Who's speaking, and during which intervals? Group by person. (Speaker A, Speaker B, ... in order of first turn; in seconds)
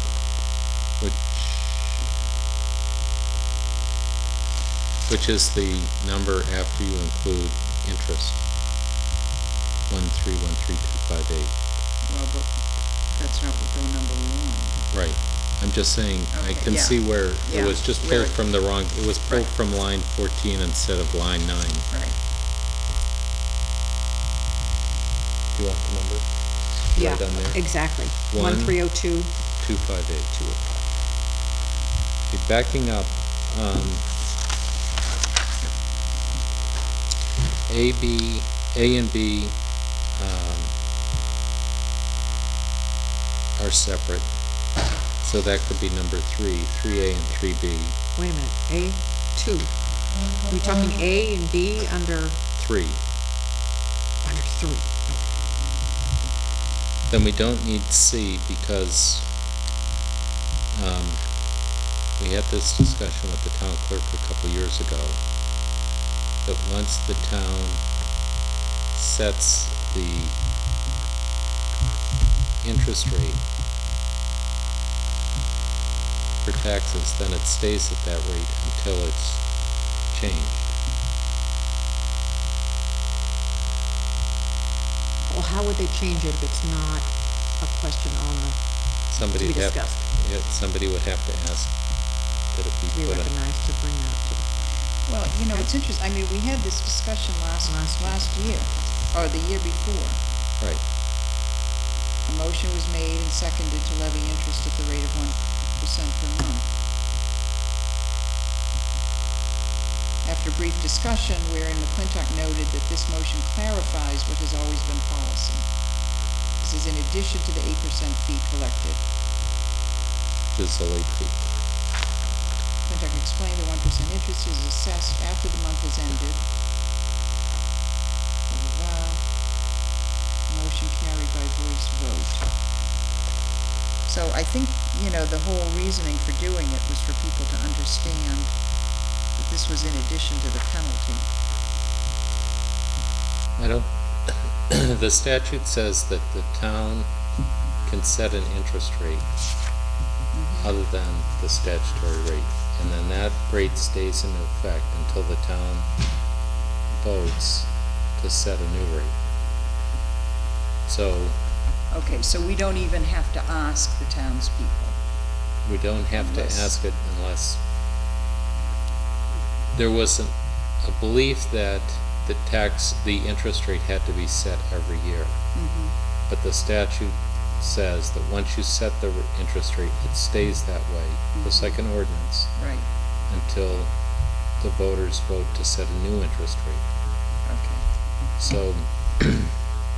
Speaker A: 1.0-2.0, 5.1-8.4, 9.9-11.5, 14.9-21.9, 25.5-26.2, 26.9-27.6, 28.2-28.8, 29.6-30.6, 32.3-34.0, 37.7-39.5, 40.2-40.7, 43.6-44.3, 45.2-48.0, 52.6-53.0, 57.1-59.3, 60.7-61.2, 62.2-65.2, 66.5-67.8, 68.9-70.4, 72.6-73.4, 76.5-79.4, 80.1-80.7, 89.1-91.7, 92.5-93.3, 120.6-121.4, 143.6-147.1, 147.8-149.3, 150.6-155.9, 157.0-159.1, 160.9-161.3, 165.7-167.6, 169.7-175.3, 176.3-182.5, 183.3-183.9, 184.6-186.8, 188.4-189.5
Speaker B: 12.1-12.5, 13.2-14.7, 16.3-18.4, 21.9-22.2, 95.1-100.2, 102.3-106.7, 110.2-115.6, 116.6-119.0, 122.9-126.4, 128.5-129.2, 130.5-132.5, 134.1-138.5, 139.4-141.3, 150.3-150.7, 161.9-164.9, 166.1-166.7, 175.6-175.9, 181.3-181.8, 182.6-182.9, 187.5-187.8
Speaker C: 26.9-29.3, 48.2-49.7, 50.4-52.4, 54.2-54.9, 85.3-88.6, 89.2-90.0, 92.9-94.5, 97.7-98.5